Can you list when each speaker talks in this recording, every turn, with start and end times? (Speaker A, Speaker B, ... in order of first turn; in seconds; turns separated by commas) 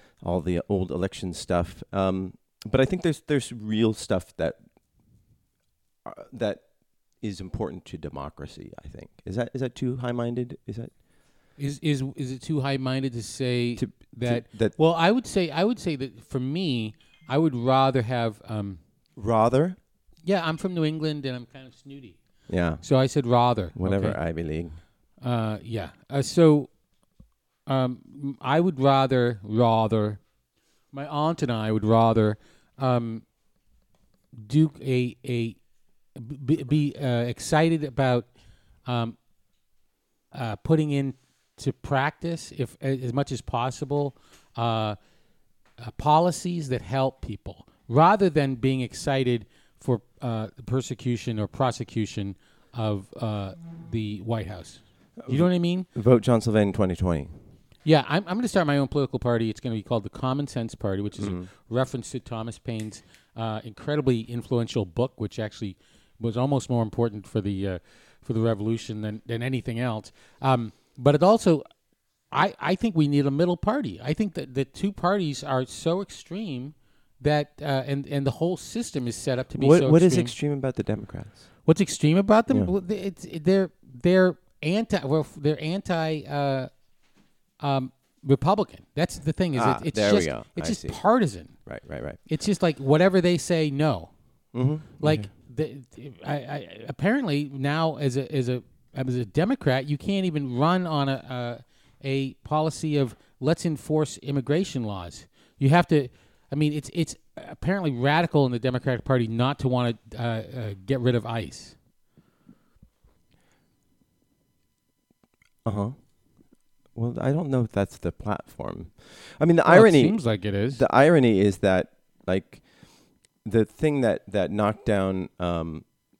Speaker A: 0.2-4.6, Speaker A: 6.0-6.7, Speaker A: 7.2-10.9, Speaker B: 11.6-18.8, Speaker A: 13.8-14.8, Speaker A: 19.2-19.8, Speaker B: 20.2-22.2, Speaker A: 22.5-22.8, Speaker B: 22.8-24.2, Speaker A: 23.8-24.8, Speaker B: 25.2-26.7, Speaker B: 27.7-30.2, Speaker B: 30.9-33.2, Speaker B: 34.4-35.6, Speaker B: 36.2-38.3, Speaker B: 38.9-39.2, Speaker B: 40.3-45.0, Speaker B: 45.8-55.9, Speaker A: 55.2-57.3, Speaker B: 57.9-71.7, Speaker A: 61.2-61.5, Speaker B: 72.3-80.3, Speaker A: 79.5-81.4, Speaker B: 81.7-86.7, Speaker B: 87.6-91.5, Speaker A: 89.5-91.0, Speaker A: 91.7-92.2, Speaker B: 92.3-94.1, Speaker A: 94.5-95.3, Speaker B: 95.0-111.8, Speaker A: 115.7-116.0, Speaker A: 117.0-122.6, Speaker B: 119.7-120.8, Speaker A: 123.5-125.8